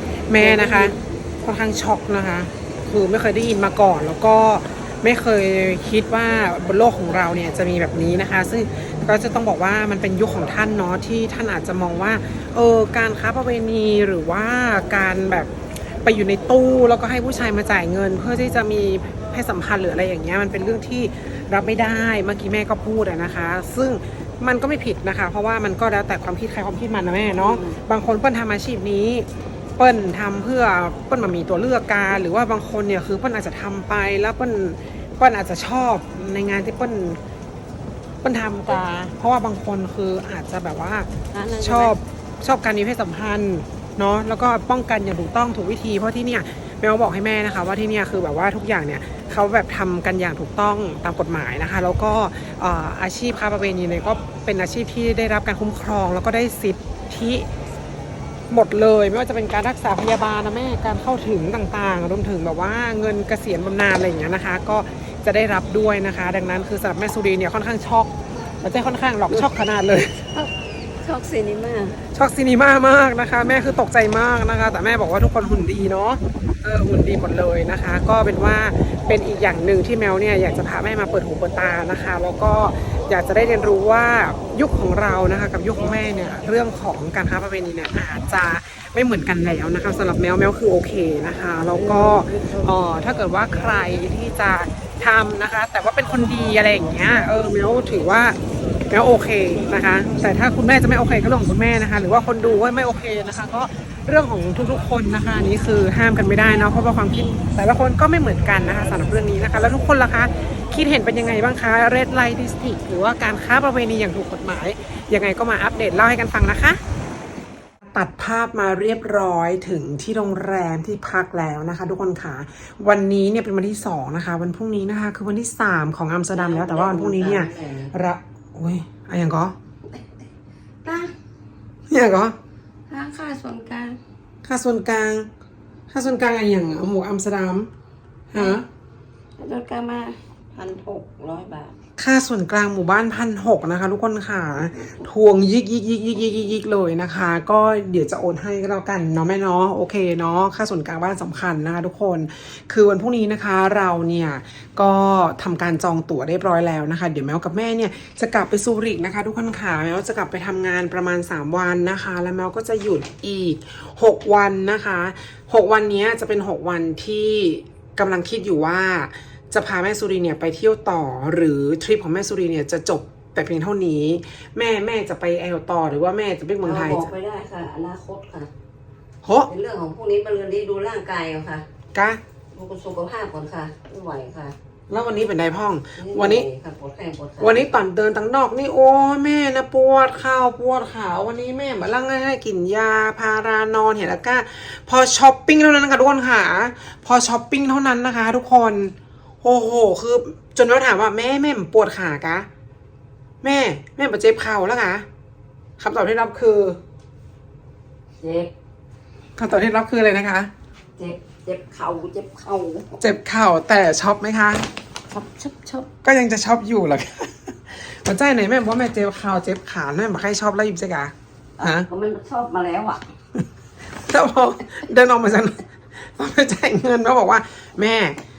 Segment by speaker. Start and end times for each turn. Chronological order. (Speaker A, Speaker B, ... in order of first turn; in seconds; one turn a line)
Speaker A: 0.3-15.5
Speaker B: 0.4-1.0
Speaker A: 16.0-29.3
Speaker B: 27.4-27.8
Speaker A: 29.8-37.2
Speaker A: 38.2-57.5
Speaker B: 41.3-42.0
Speaker A: 58.5-70.3
Speaker B: 71.0-72.0
Speaker A: 72.1-98.4
Speaker B: 91.8-92.7
Speaker A: 98.9-116.8
Speaker A: 117.8-129.5
Speaker B: 126.3-127.9
Speaker B: 129.9-130.2
Speaker B: 130.8-131.1
Speaker A: 131.9-132.4
Speaker B: 132.9-134.0
Speaker A: 134.4-135.3
Speaker A: 135.9-137.7
Speaker A: 138.3-138.7
Speaker B: 138.3-138.6
Speaker B: 139.4-141.8
Speaker A: 142.0-177.1
Speaker B: 176.6-178.5
Speaker A: 179.2-179.5
Speaker B: 179.5-181.7
Speaker A: 181.9-182.2
Speaker B: 182.5-184.6
Speaker A: 184.9-186.5
Speaker B: 186.0-187.7
Speaker A: 187.4-202.5
Speaker A: 203.4-205.1
Speaker A: 205.8-206.8
Speaker B: 208.2-208.5
Speaker A: 209.4-210.5
Speaker B: 211.0-213.0
Speaker A: 213.0-214.7
Speaker B: 215.1-215.9
Speaker A: 216.0-221.9
Speaker B: 221.6-223.0
Speaker A: 224.0-228.2